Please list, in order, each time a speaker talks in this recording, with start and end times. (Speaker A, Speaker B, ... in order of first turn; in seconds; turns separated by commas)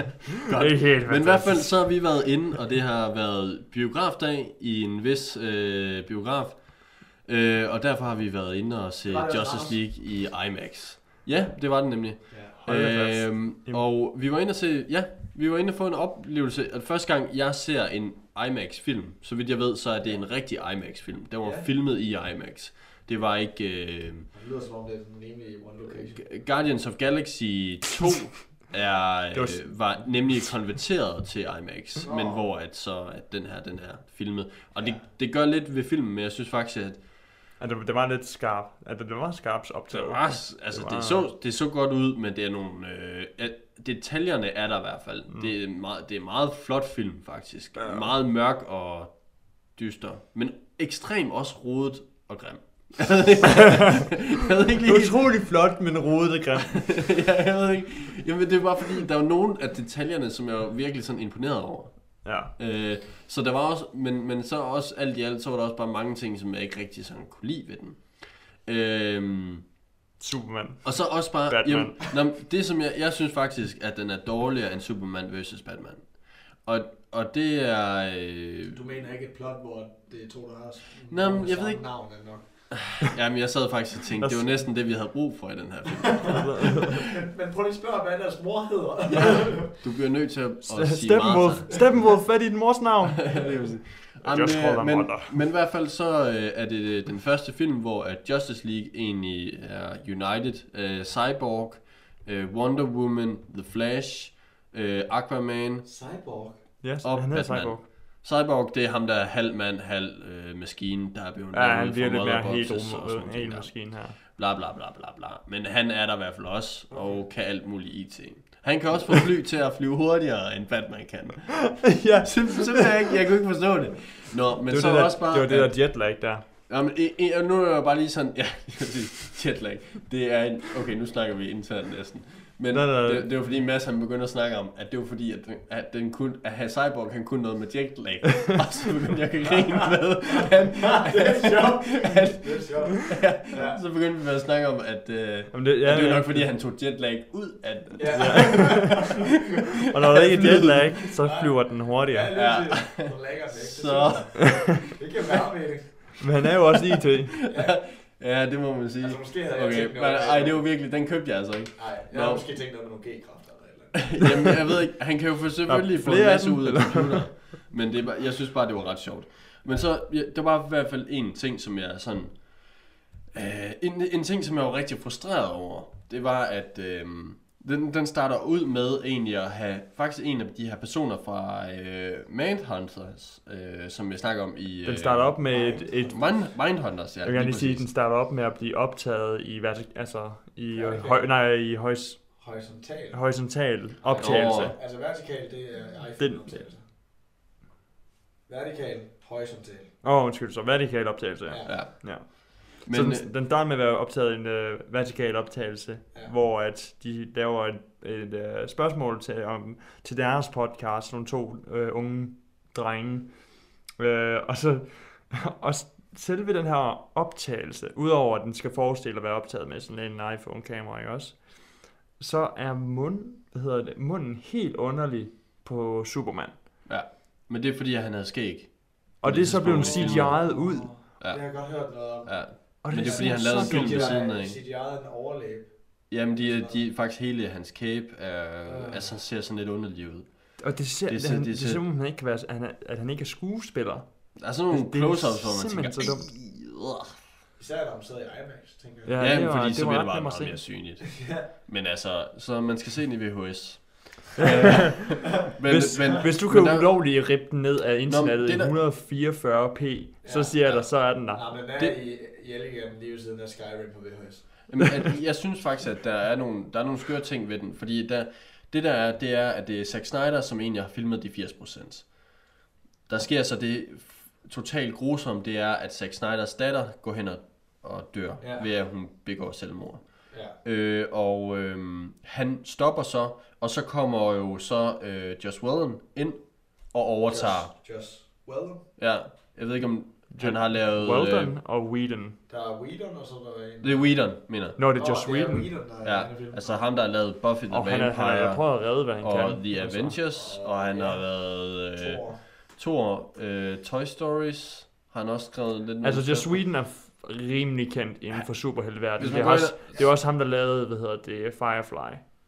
Speaker A: 0.3-24.3, Speaker B: 0.5-2.4, Speaker C: 9.1-9.8, Speaker C: 12.3-12.6, Speaker B: 12.7-13.8, Speaker C: 21.4-21.7, Speaker C: 24.3-26.2, Speaker A: 25.9-37.0, Speaker B: 29.3-30.4, Speaker C: 32.0-32.5, Speaker C: 34.8-35.0, Speaker B: 37.6-41.3, Speaker A: 39.9-55.2, Speaker B: 54.8-57.1, Speaker A: 56.8-69.6, Speaker B: 62.2-62.5, Speaker B: 70.2-72.2, Speaker A: 70.8-78.8, Speaker C: 78.7-82.7, Speaker A: 81.1-81.9, Speaker A: 82.9-86.5, Speaker B: 84.2-84.7, Speaker B: 86.3-87.0, Speaker C: 87.0-89.7, Speaker A: 89.1-92.2, Speaker B: 90.6-93.7, Speaker A: 93.3-105.9, Speaker B: 94.2-95.4, Speaker C: 105.8-106.6, Speaker B: 106.8-107.8, Speaker A: 107.0-126.1, Speaker B: 111.5-114.2, Speaker C: 116.9-117.2, Speaker B: 121.7-123.2, Speaker B: 124.7-126.4, Speaker A: 126.7-149.1, Speaker B: 132.7-133.3, Speaker C: 140.9-143.8, Speaker B: 145.5-146.6, Speaker C: 148.0-149.3, Speaker B: 148.1-149.1, Speaker B: 149.9-152.6, Speaker A: 150.0-150.9, Speaker C: 151.2-156.2, Speaker A: 152.3-154.7, Speaker B: 156.2-157.4, Speaker A: 157.4-162.4, Speaker C: 157.5-158.0, Speaker C: 159.0-160.7, Speaker C: 161.8-164.3, Speaker A: 163.9-187.9, Speaker B: 165.7-167.4, Speaker B: 184.8-192.4, Speaker C: 185.5-186.3, Speaker C: 190.7-191.4, Speaker C: 192.4-196.8, Speaker B: 193.1-194.8, Speaker A: 194.2-194.8, Speaker B: 196.2-196.7, Speaker C: 198.5-199.9, Speaker B: 200.0-226.6, Speaker C: 201.5-201.7, Speaker A: 201.7-203.3, Speaker A: 226.9-230.6, Speaker B: 229.2-231.0, Speaker C: 229.5-236.8, Speaker A: 231.2-234.6, Speaker B: 232.8-234.2, Speaker A: 236.1-241.8, Speaker C: 238.7-239.2, Speaker B: 240.6-246.3, Speaker A: 244.4-247.2, Speaker C: 247.6-249.2, Speaker B: 249.1-250.6, Speaker A: 249.2-257.0, Speaker C: 251.1-251.5, Speaker B: 254.4-261.5, Speaker A: 258.1-258.8, Speaker C: 260.2-264.7, Speaker A: 264.7-272.1, Speaker A: 273.1-287.7, Speaker C: 278.4-278.7, Speaker C: 280.3-280.6, Speaker C: 287.3-288.9, Speaker A: 289.0-291.5, Speaker B: 290.3-292.4, Speaker C: 292.5-294.2, Speaker A: 293.8-294.8, Speaker B: 294.8-295.8, Speaker C: 294.9-296.9, Speaker A: 296.0-306.6, Speaker B: 297.7-300.2, Speaker C: 300.3-302.4, Speaker B: 306.0-312.2, Speaker A: 309.2-310.1, Speaker C: 309.3-310.1